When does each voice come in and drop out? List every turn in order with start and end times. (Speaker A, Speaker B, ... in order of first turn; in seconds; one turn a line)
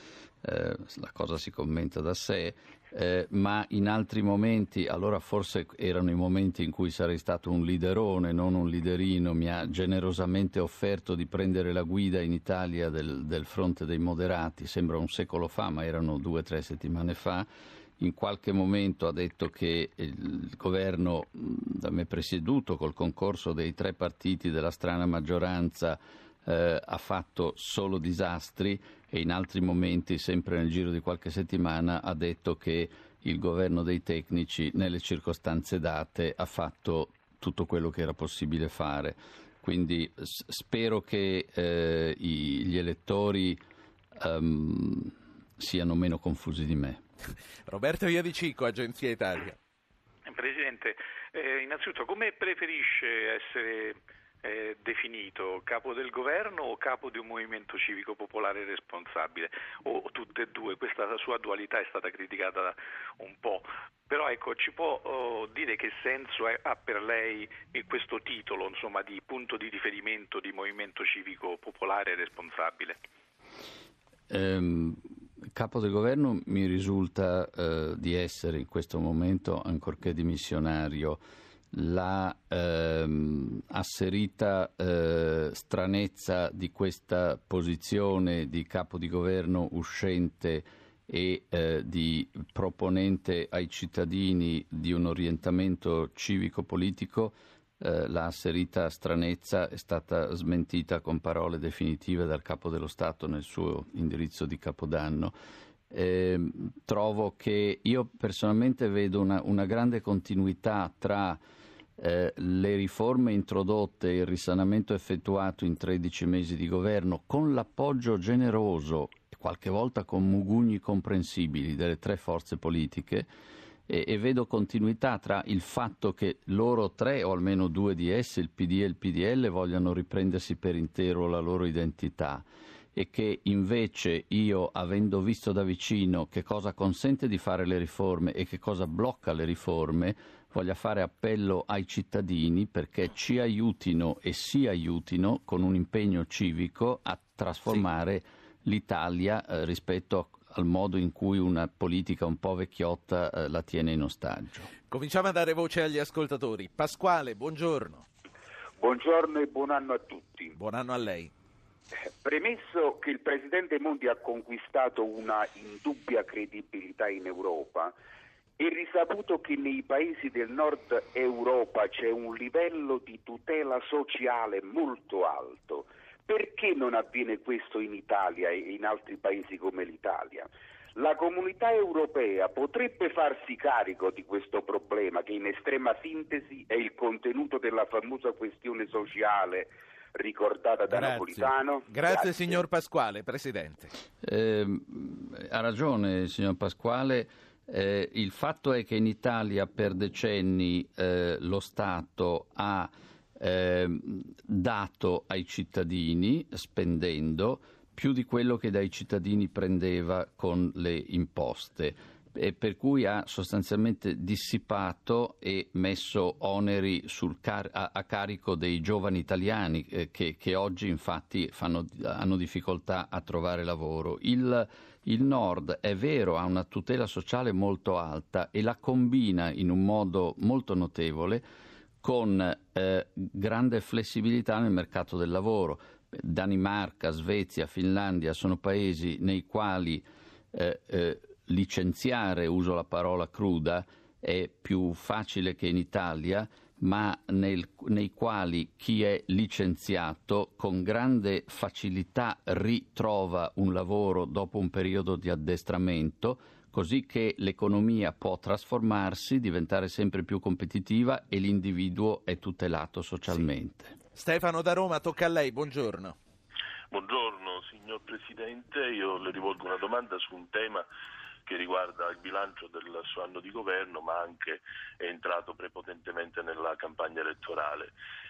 Speaker A: 0.4-17.5
Speaker A: 18.0-43.6
Speaker A: 44.1-47.0
Speaker B: 47.7-49.6
Speaker C: 50.2-73.0
Speaker A: 74.3-105.3
Speaker A: 105.9-111.4
Speaker A: 112.0-123.3
Speaker A: 123.9-154.7
Speaker B: 154.9-158.1
Speaker D: 158.8-160.5
Speaker B: 160.6-161.3
Speaker D: 162.2-167.9
Speaker D: 168.6-192.6
Speaker B: 190.9-193.9
Speaker A: 194.2-231.4
Speaker A: 232.0-263.9
Speaker B: 264.1-266.1
Speaker E: 266.9-270.9
Speaker E: 271.4-277.9